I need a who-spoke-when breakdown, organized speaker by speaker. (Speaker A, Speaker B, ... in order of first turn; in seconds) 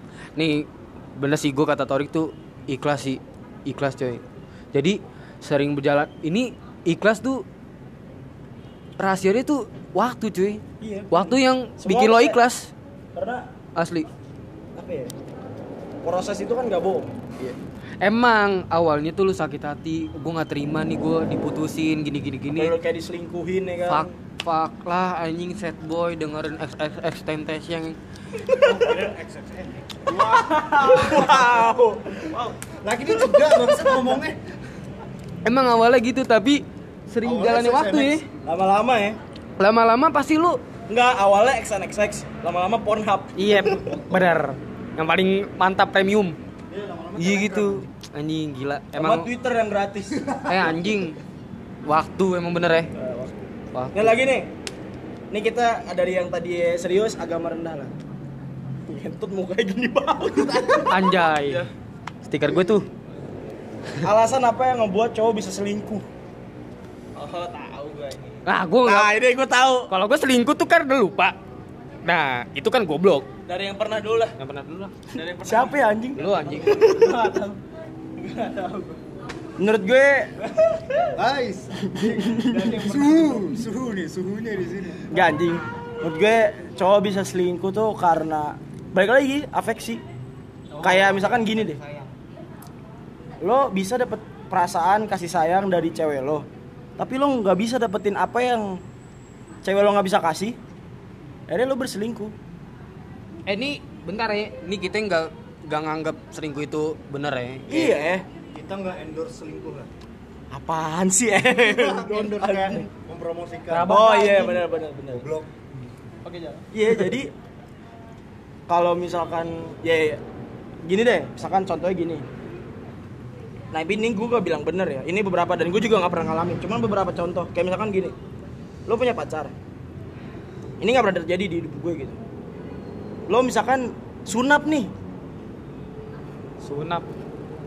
Speaker A: 0.3-7.4, 9.0-12.7, 13.8-14.1, 17.4-22.7, 23.9-28.0, 35.4-38.2, 39.6-40.6, 43.4-46.4, 47.2-49.3, 50.5-51.2, 51.8-52.9, 53.7-54.2, 60.3-61.6, 62.2-62.9, 68.5-69.2, 69.9-71.4, 72.0-73.3, 74.4-75.0, 76.1-77.1, 103.5-108.0, 113.7-114.7, 136.6-137.1
Speaker B: 10.8-12.4, 13.1-13.5, 14.8-15.1, 16.0-17.2, 22.5-24.1, 30.1-32.4, 33.4-33.9, 38.4-39.2, 40.9-43.8, 49.0-50.4, 52.9-53.4, 53.9-54.5, 55.3-57.9, 58.9-61.1, 64.0-66.1, 68.8-69.9, 75.4-77.2, 79.6-80.4, 82.0-82.6, 85.1-90.0, 90.8-91.8, 93.4-96.5, 97.0-98.8, 99.6-100.6, 101.5-102.3, 107.7-108.2, 110.5-112.8, 113.9-115.2, 116.7-117.3, 118.7-120.2, 120.8-122.2, 123.7-128.1, 128.9-129.5, 130.8-132.2, 133.3-134.9
Speaker C: 28.5-30.2, 31.1-31.6, 32.7-34.4, 37.2-38.3, 43.9-44.4, 46.7-47.9, 50.2-50.8, 81.1-85.3, 108.5-109.9, 111.6-114.0, 115.1-115.9
Speaker D: 30.1-31.2, 61.1-61.7, 67.1-68.5, 73.5-74.3, 75.1-77.6, 78.2-79.0, 80.6-81.1, 82.4-83.6, 90.7-92.1, 116.2-116.7